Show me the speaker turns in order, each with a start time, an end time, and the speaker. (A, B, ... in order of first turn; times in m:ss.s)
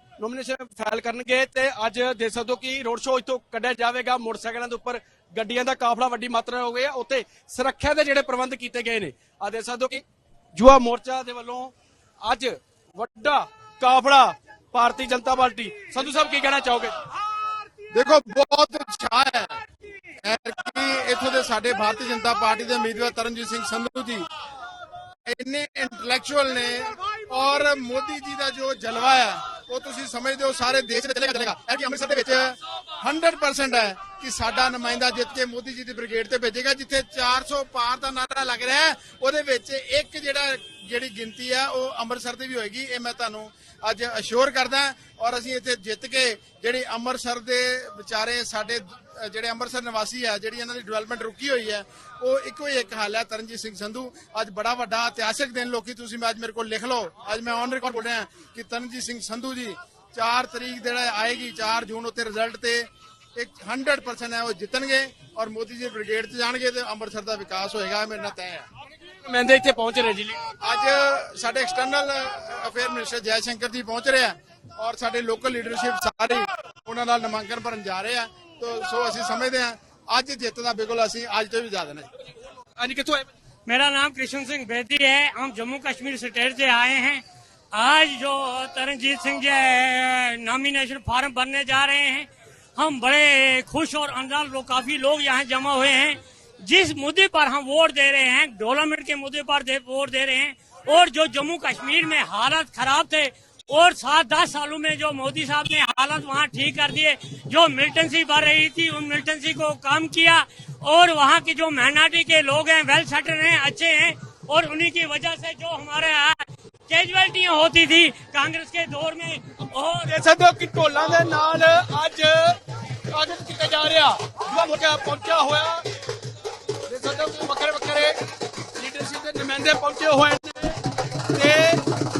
0:00.2-0:16.9 A
0:17.9-0:19.6 B
0:20.2-0:24.2 B
0:25.3-1:08.6 B
1:09.1-1:10.4 A
1:10.6-1:22.1 B
1:22.8-1:23.3 A
1:23.7-2:00.2 C
2:00.1-2:02.6 A
2:03.1-2:05.8 A
2:06.9-2:08.2 A
2:08.8-2:10.8 A
2:11.3-2:11.8 A